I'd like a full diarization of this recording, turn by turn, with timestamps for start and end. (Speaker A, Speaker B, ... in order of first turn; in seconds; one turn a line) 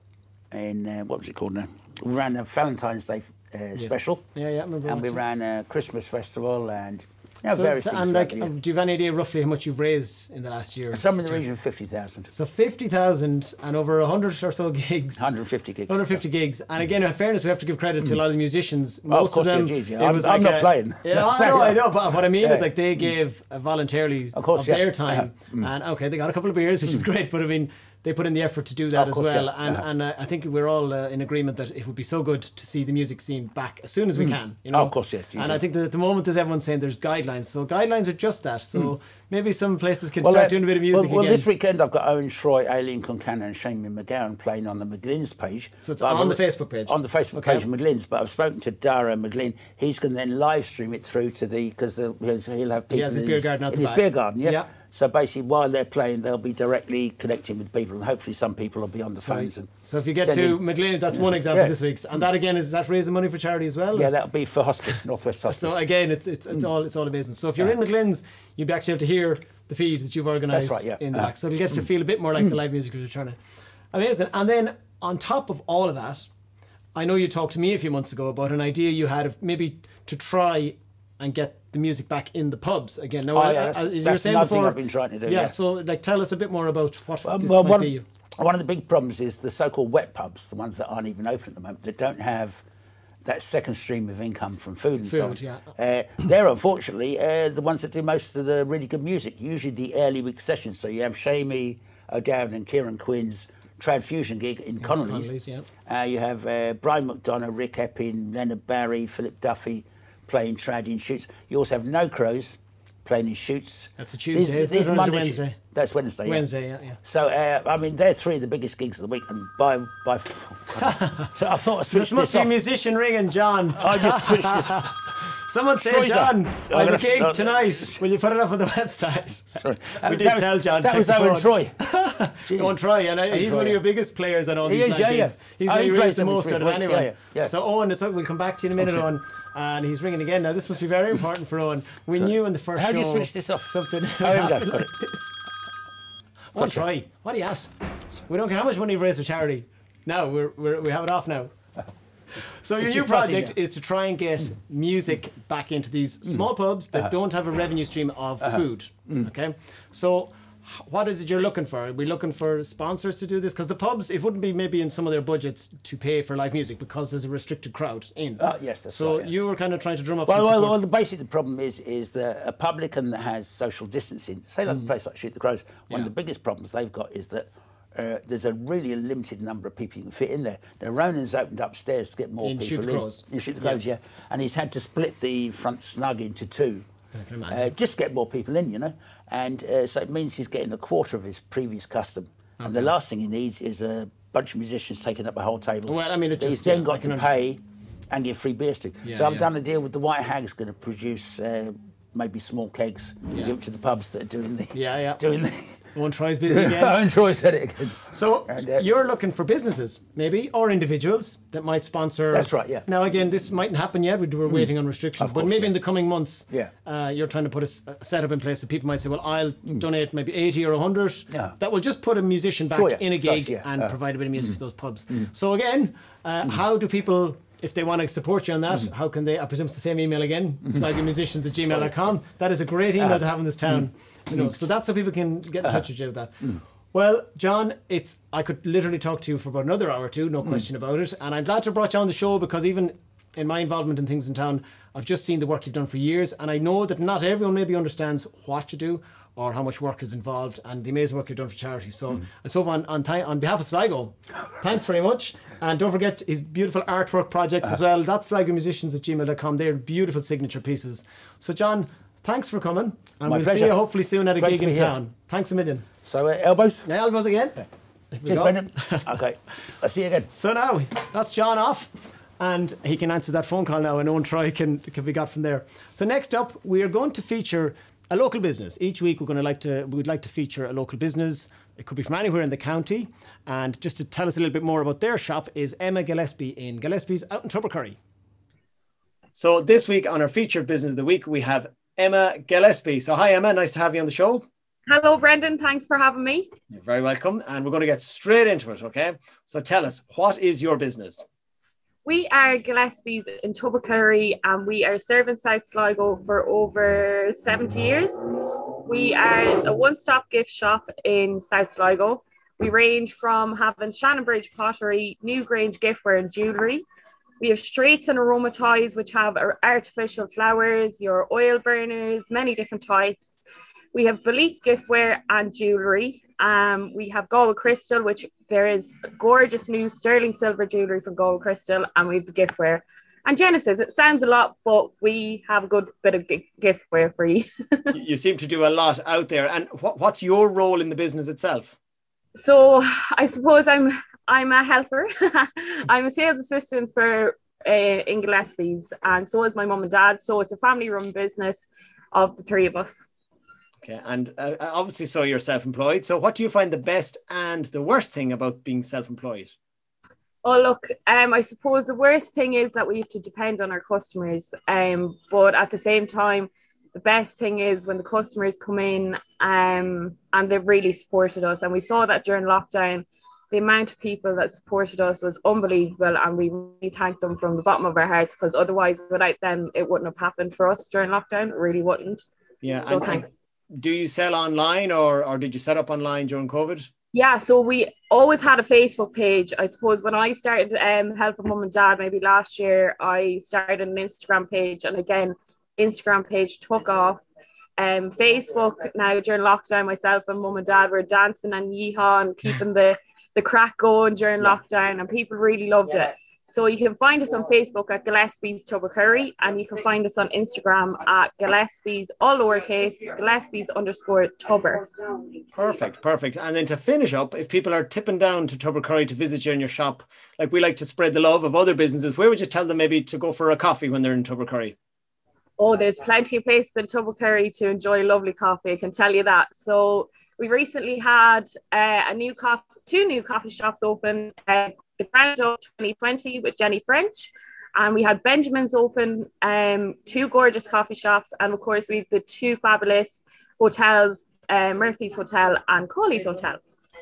Speaker A: 0.5-4.2
Speaker B: 3.7-5.2
Speaker A: 4.8-8.5
Speaker B: 7.5-11.4
Speaker A: 10.9-12.3
Speaker B: 12.3-15.2
Speaker A: 15.2-16.2
Speaker B: 15.9-41.5
Speaker A: 19.1-22.7
Speaker A: 24.3-25.7
Speaker A: 28.9-29.8
Speaker A: 34.1-35.6
Speaker A: 40.2-60.6
Speaker B: 45.8-47.6
Speaker B: 52.9-54.7
Speaker B: 59.2-64.1
Speaker A: 61.4-61.7
Speaker A: 63.9-65.8
Speaker B: 65.5-73.4
Speaker A: 70.5-71.3
Speaker B: 73.9-76.3
Speaker B: 76.9-88.0
Speaker A: 83.3-85.5
Speaker A: 87.2-92.6
Speaker A: 93.2-105.3
Speaker B: 95.0-95.7
Speaker B: 104.8-105.7
Speaker A: 105.8-116.5
Speaker B: 114.0-115.6
Speaker B: 116.2-117.0
Speaker A: 117.0-122.5
Speaker B: 120.8-121.3
Speaker B: 121.9-145.4
Speaker A: 123.7-124.9
Speaker A: 125.8-128.0
Speaker A: 129.5-131.8
Speaker A: 132.4-132.7
Speaker A: 133.3-133.8
Speaker A: 134.6-137.5
Speaker A: 142.2-144.9
Speaker B: 146.5-147.7
Speaker A: 146.6-146.8
Speaker B: 148.3-151.5
Speaker B: 152.3-170.8
Speaker A: 152.8-153.5
Speaker A: 168.4-169.3
Speaker A: 170.3-186.8
Speaker B: 182.4-183.8
Speaker B: 187.1-187.7
Speaker A: 187.5-205.8
Speaker B: 192.6-192.9
Speaker B: 195.8-197.3
Speaker B: 199.0-199.5
Speaker B: 204.7-205.2
Speaker B: 205.9-207.0
Speaker A: 206.5-208.8
Speaker B: 208.1-265.9
Speaker A: 212.3-212.8
Speaker A: 214.5-215.7
Speaker A: 222.7-223.9
Speaker A: 231.7-231.9
Speaker A: 263.2-263.8
Speaker A: 264.4-265.0
Speaker A: 266.0-266.9
Speaker B: 266.8-269.1
Speaker A: 268.3-270.3
Speaker B: 270.3-288.0
Speaker B: 289.3-294.4
Speaker C: 294.9-296.5
Speaker B: 296.7-301.2
Speaker C: 302.0-316.8
Speaker C: 317.4-323.4
Speaker C: 323.9-337.9
Speaker B: 337.9-341.8
Speaker C: 342.3-353.1
Speaker B: 353.8-359.5
Speaker C: 360.4-382.3
Speaker B: 382.6-386.9
Speaker C: 382.8-383.3
Speaker C: 387.1-397.2
Speaker C: 397.8-415.1
Speaker B: 415.5-424.7
Speaker C: 425.6-446.6